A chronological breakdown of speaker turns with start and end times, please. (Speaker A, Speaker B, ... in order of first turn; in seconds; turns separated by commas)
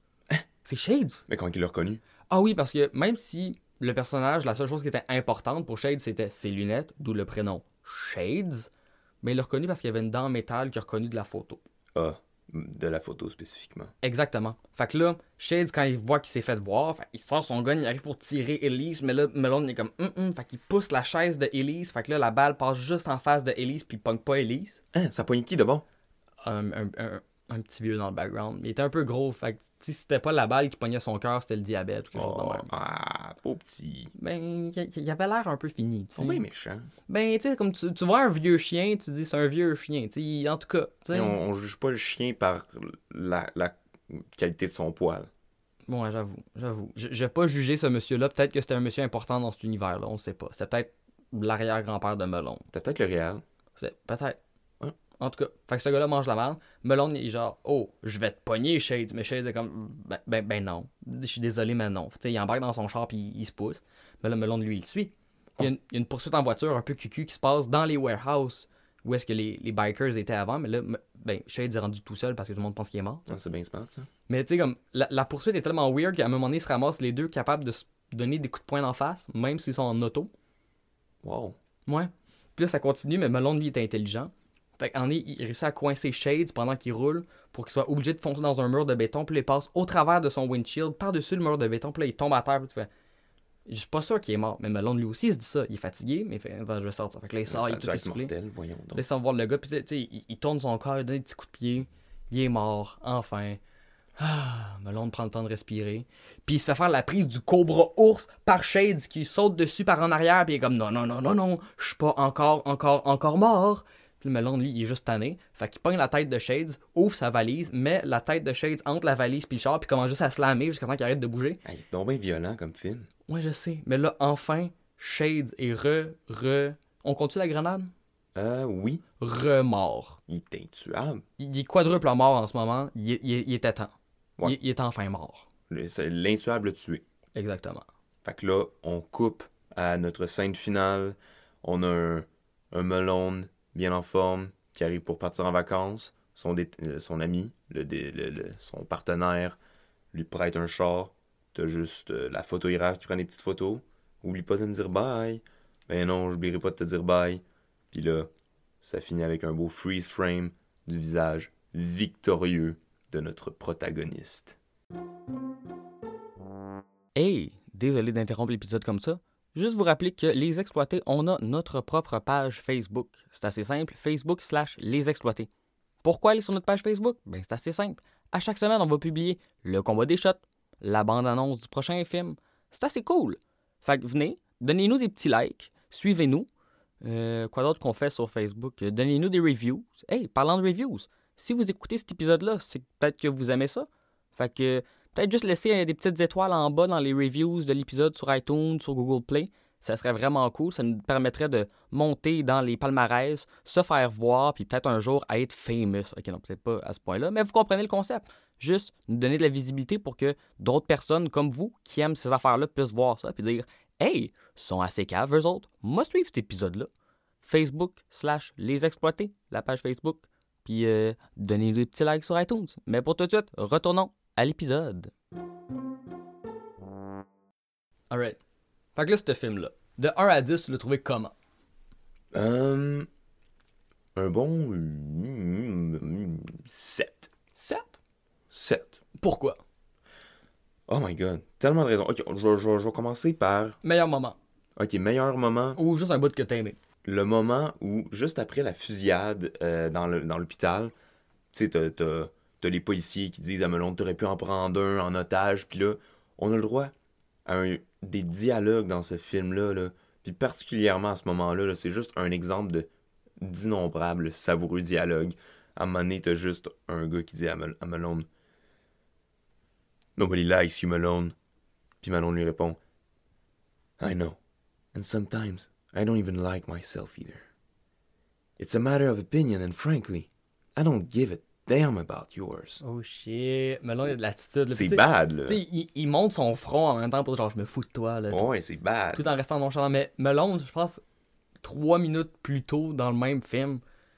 Speaker A: 0.7-1.3, Speaker B: 1.3-2.0, Speaker A: 2.3-8.7, Speaker A: 9.2-11.6, Speaker B: 11.9-13.9, Speaker A: 14.0-24.8, Speaker B: 24.9-25.9, Speaker A: 26.4-32.7, Speaker B: 32.1-34.1, Speaker A: 34.1-36.4, Speaker B: 36.2-36.9, Speaker A: 37.1-41.4, Speaker B: 41.1-45.3, Speaker A: 45.9-52.7, Speaker B: 52.7-53.4, Speaker A: 53.8-54.4, Speaker A: 55.2-73.3, Speaker B: 73.3-74.1, Speaker A: 74.3-80.3, Speaker B: 81.2-81.6, Speaker A: 81.9-92.9, Speaker A: 93.7-98.3, Speaker B: 97.5-99.0, Speaker A: 98.9-103.6, Speaker A: 104.2-121.6, Speaker B: 121.6-123.1, Speaker A: 123.3-127.9, Speaker B: 128.3-129.0, Speaker A: 129.2-130.2, Speaker B: 130.3-131.2, Speaker A: 131.4-133.9, Speaker A: 134.4-135.4, Speaker B: 135.7-137.0, Speaker A: 137.3-137.8, Speaker B: 138.2-149.6, Speaker B: 150.1-158.3, Speaker B: 158.8-164.6, Speaker A: 167.2-175.5, Speaker A: 176.0-186.5, Speaker A: 187.0-216.9, Speaker A: 217.4-225.1, Speaker A: 228.1-228.4, Speaker A: 229.0-231.3, Speaker B: 232.3-233.1, Speaker B: 234.2-237.3, Speaker A: 237.6-238.0, Speaker B: 238.5-239.0, Speaker A: 239.2-239.6, Speaker B: 240.9-243.8, Speaker A: 243.8-244.4, Speaker B: 244.8-245.8, Speaker A: 245.8-246.8, Speaker B: 247.0-250.9, Speaker B: 251.5-256.9, Speaker B: 257.5-262.9, Speaker B: 263.4-268.3, Speaker B: 270.2-271.3, Speaker B: 272.0-272.8, Speaker B: 274.0-274.4, Speaker B: 274.9-277.4, Speaker B: 278.6-282.8, Speaker A: 282.8-288.5, Speaker B: 284.7-285.6, Speaker B: 288.3-289.2, Speaker A: 289.1-291.0, Speaker A: 291.6-293.8